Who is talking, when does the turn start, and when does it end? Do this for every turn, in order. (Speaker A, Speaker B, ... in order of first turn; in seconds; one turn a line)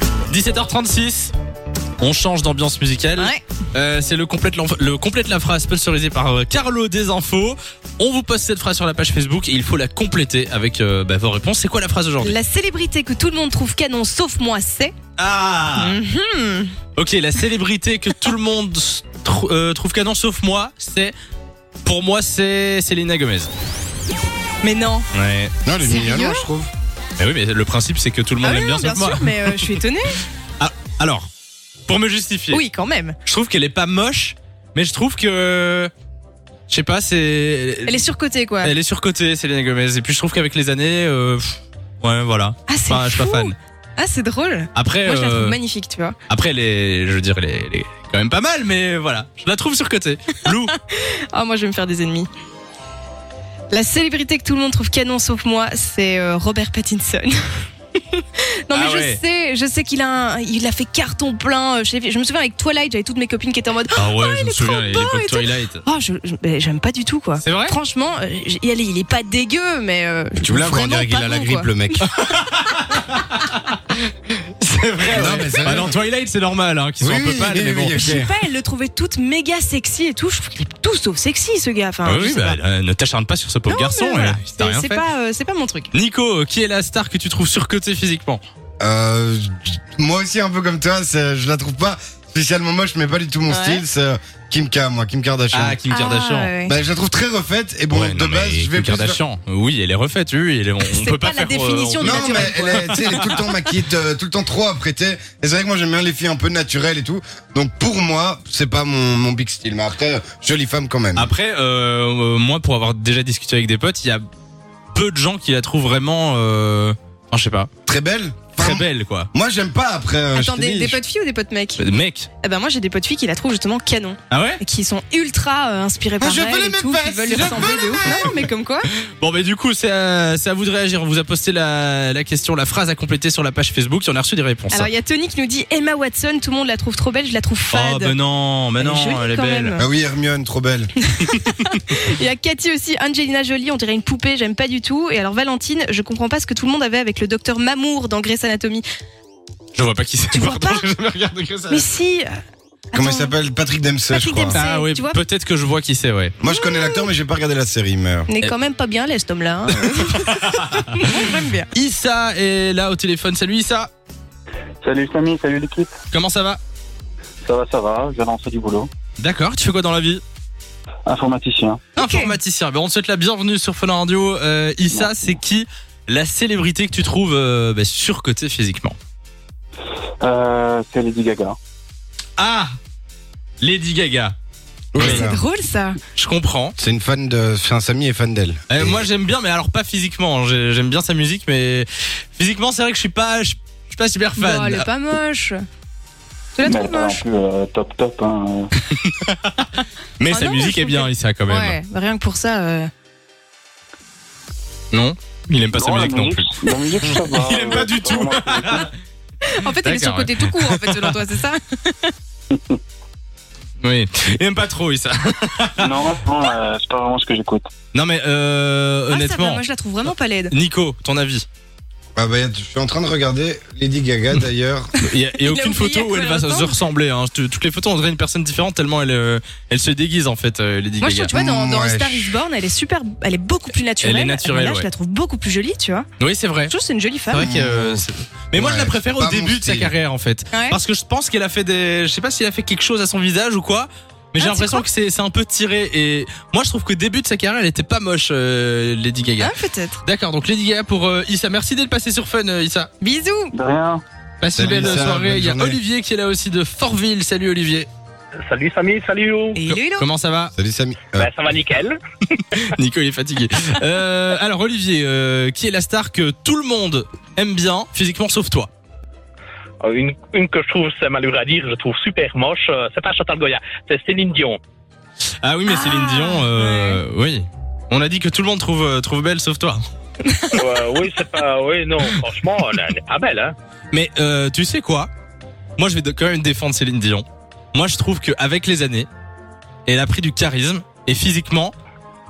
Speaker A: 0.3-1.3
Speaker A: 2.0-12.3
Speaker B: 12.2-14.9
Speaker A: 15.2-16.0
Speaker B: 15.7-16.7
Speaker A: 16.9-21.1
Speaker A: 21.8-23.5
Speaker B: 24.6-25.1
Speaker A: 25.1-25.5
Speaker C: 25.6-26.7
Speaker B: 25.8-26.5
Speaker A: 27.2-29.8
Speaker B: 28.4-30.2
Speaker A: 30.6-31.3
Speaker A: 31.9-32.6
Speaker B: 32.5-33.1
Speaker A: 33.2-35.9
Speaker A: 36.7-38.0
Speaker B: 37.9-38.7
Speaker A: 38.6-43.5
Speaker B: 42.7-46.1
Speaker A: 44.7-45.6
Speaker A: 46.3-50.7
Speaker B: 50.5-52.3
Speaker B: 53.7-57.5
Speaker B: 58.1-71.7
Speaker A: 58.7-59.2
Speaker A: 63.9-65.8
Speaker A: 67.4-67.8
Speaker C: 70.4-72.0
Speaker A: 72.0-73.6
Speaker A: 74.6-78.2
Speaker C: 75.1-76.0
Speaker C: 77.0-78.3
Speaker B: 77.9-82.6
Speaker A: 82.0-85.0
Speaker B: 83.7-85.9
Speaker A: 85.9-88.4
Speaker C: 88.8-95.8
Speaker B: 93.5-93.8
Speaker A: 95.5-96.5
Speaker B: 95.9-96.7
Speaker C: 96.7-99.2
Speaker A: 97.9-103.4
Speaker B: 100.8-103.3
Speaker C: 102.0-111.3
Speaker A: 111.1-114.2
Speaker A: 114.9-117.7
Speaker C: 117.8-121.0
Speaker A: 118.6-119.3
Speaker B: 120.3-121.8
Speaker A: 121.8-122.3
Speaker B: 122.4-128.9
Speaker A: 124.3-124.6
Speaker C: 126.2-128.3
Speaker A: 127.3-128.3
Speaker A: 129.2-134.9
Speaker B: 134.7-138.2
Speaker A: 137.7-139.8
Speaker B: 138.8-139.8
Speaker C: 139.8-140.9
Speaker B: 141.0-148.8
Speaker A: 149.7-151.9
Speaker B: 150.3-150.8
Speaker B: 151.7-152.4
Speaker B: 152.9-153.3
Speaker C: 152.9-154.6
Speaker B: 154.1-155.2
Speaker A: 154.5-156.3
Speaker C: 156.4-158.3
Speaker B: 156.4-157.1
Speaker B: 158.3-161.7
Speaker A: 159.8-160.8
Speaker A: 161.7-163.9
Speaker D: 164.8-165.9
Speaker A: 166.1-166.6
Speaker D: 167.4-168.9
Speaker A: 169.2-170.2
Speaker D: 171.1-171.8
Speaker B: 172.0-172.3
Speaker A: 172.0-179.0
Speaker D: 174.9-175.4
Speaker D: 180.2-181.6
Speaker A: 182.4-182.8
Speaker A: 183.6-184.3
Speaker C: 184.9-185.4
Speaker A: 184.9-185.3
Speaker B: 185.0-186.0
Speaker A: 186.2-186.7
Speaker C: 186.8-189.1
Speaker A: 188.7-194.9
Speaker B: 194.3-195.6
Speaker B: 196.6-197.2
Speaker D: 196.6-198.7
Speaker A: 198.9-201.8
Speaker B: 200.3-202.9
Speaker A: 204.9-208.9
Speaker D: 205.7-208.9
Speaker B: 209.5-212.1
Speaker A: 209.8-211.1
Speaker A: 213.8-216.1
Speaker D: 215.8-217.7
Speaker A: 217.9-221.4
Speaker B: 219.1-220.5
Speaker C: 222.2-224.9
Speaker B: 225.0-226.8
Speaker A: 225.0-231.3
Speaker B: 231.0-236.1
Speaker C: 231.3-232.3
Speaker A: 234.0-234.9
Speaker A: 236.2-236.7
Speaker B: 236.7-237.5
Speaker A: 237.3-249.5
Speaker C: 237.4-239.9
Speaker B: 240.5-240.8
Speaker B: 244.4-244.8
Speaker B: 249.4-250.0
Speaker A: 250.0-252.9
Speaker B: 253.0-253.5
Speaker D: 253.5-254.0
Speaker A: 254.4-257.9
Speaker C: 254.6-255.8
Speaker E: 258.4-259.6
Speaker B: 259.5-260.1
Speaker A: 259.6-260.5
Speaker C: 260.5-261.3
Speaker E: 261.1-262.0
Speaker A: 262.5-268.7
Speaker E: 269.8-274.6
Speaker A: 275.4-279.8
Speaker B: 275.7-277.0
Speaker B: 280.2-280.6
Speaker E: 280.5-283.5
Speaker A: 283.9-285.1
Speaker A: 285.8-289.1
Speaker A: 289.9-291.7